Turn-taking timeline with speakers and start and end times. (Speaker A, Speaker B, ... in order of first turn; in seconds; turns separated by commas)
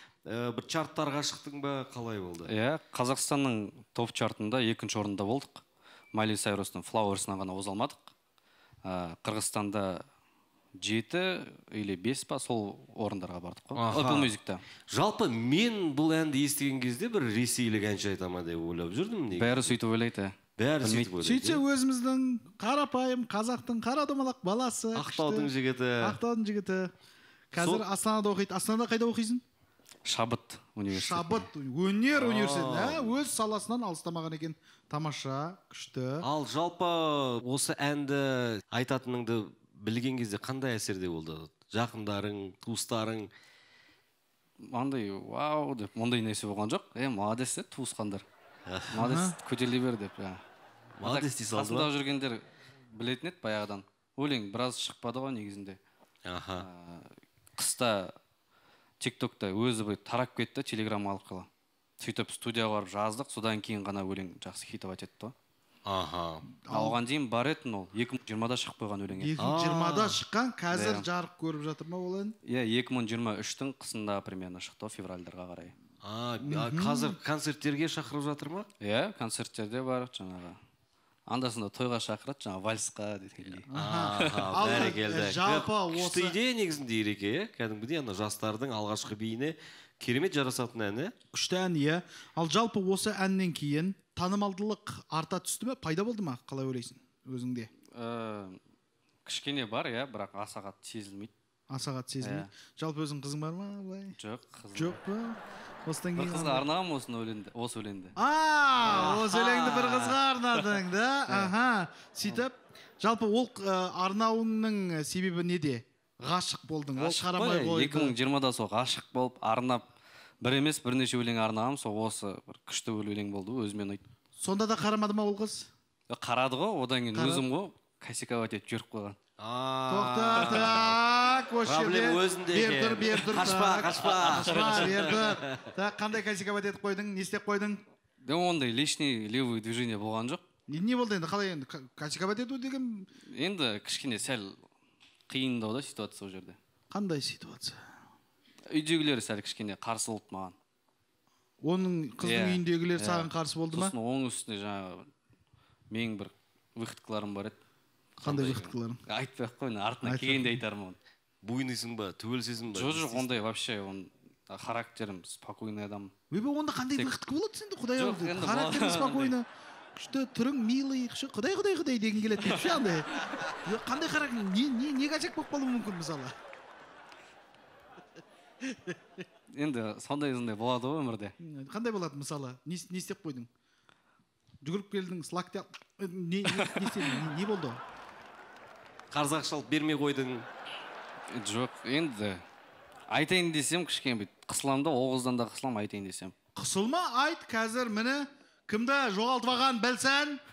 Speaker A: 0.3-2.5, Speaker B: 2.5-8.1, Speaker B: 8.8-10.0, Speaker B: 10.8-14.6, Speaker A: 13.8-14.3, Speaker A: 14.9-19.7, Speaker B: 19.3-21.6, Speaker A: 20.6-21.5, Speaker C: 21.2-25.5, Speaker A: 24.9-26.1, Speaker C: 26.0-26.9, Speaker C: 27.5-29.4, Speaker A: 27.6-27.9, Speaker B: 30.1-31.5, Speaker C: 30.9-36.3, Speaker A: 32.1-33.2, Speaker A: 36.2-43.3, Speaker B: 44.6-48.2, Speaker A: 48.7-49.0, Speaker B: 48.9-50.4, Speaker C: 49.0-49.4, Speaker A: 51.0-51.9, Speaker B: 51.0-52.4, Speaker B: 52.9-55.8, Speaker A: 56.3-56.7, Speaker B: 56.6-58.2, Speaker B: 59.0-61.5, Speaker B: 62.0-65.3, Speaker A: 65.9-66.5, Speaker C: 66.7-67.0, Speaker B: 66.7-69.3, Speaker C: 69.1-72.3, Speaker A: 69.4-70.2, Speaker B: 70.7-71.0, Speaker B: 72.5-75.8, Speaker A: 76.0-78.7, Speaker C: 76.4-77.2, Speaker B: 78.8-80.6, Speaker B: 81.3-83.7, Speaker C: 83.7-86.4, Speaker A: 83.8-91.1, Speaker B: 84.2-84.6, Speaker C: 91.3-97.7, Speaker B: 97.9-98.6, Speaker B: 99.2-101.3, Speaker C: 101.7-104.2, Speaker B: 102.2-102.5, Speaker B: 104.2-105.0, Speaker C: 104.7-106.7, Speaker B: 106.2-108.1, Speaker C: 108.2-118.2, Speaker A: 108.9-110.1, Speaker B: 116.9-119.8, Speaker B: 120.4-124.0, Speaker C: 124.4-125.7, Speaker B: 126.1-129.2, Speaker C: 127.1-127.5, Speaker A: 129.4-130.9, Speaker C: 129.9-137.8, Speaker A: 131.7-135.6, Speaker B: 134.5-135.2, Speaker B: 138.2-140.4, Speaker C: 140.7-143.1, Speaker B: 143.3-144.6, Speaker B: 145.3-146.6, Speaker C: 146.9-147.8, Speaker B: 148.7-150.6, Speaker C: 151.6-153.9, Speaker B: 152.2-155.1, Speaker B: 155.9-157.6, Speaker C: 158.2-159.0, Speaker B: 158.2-161.0, Speaker C: 160.0-160.6, Speaker A: 161.4-163.3, Speaker B: 162.7-166.1, Speaker C: 166.3-176.3, Speaker B: 168.0-169.3, Speaker C: 178.7-178.9, Speaker B: 179.5-181.3, Speaker C: 181.4-183.5, Speaker C: 184.6-187.8, Speaker B: 186.6-187.2, Speaker A: 189.1-190.5, Speaker B: 191.3-192.4, Speaker B: 193.1-196.3, Speaker C: 196.6-200.4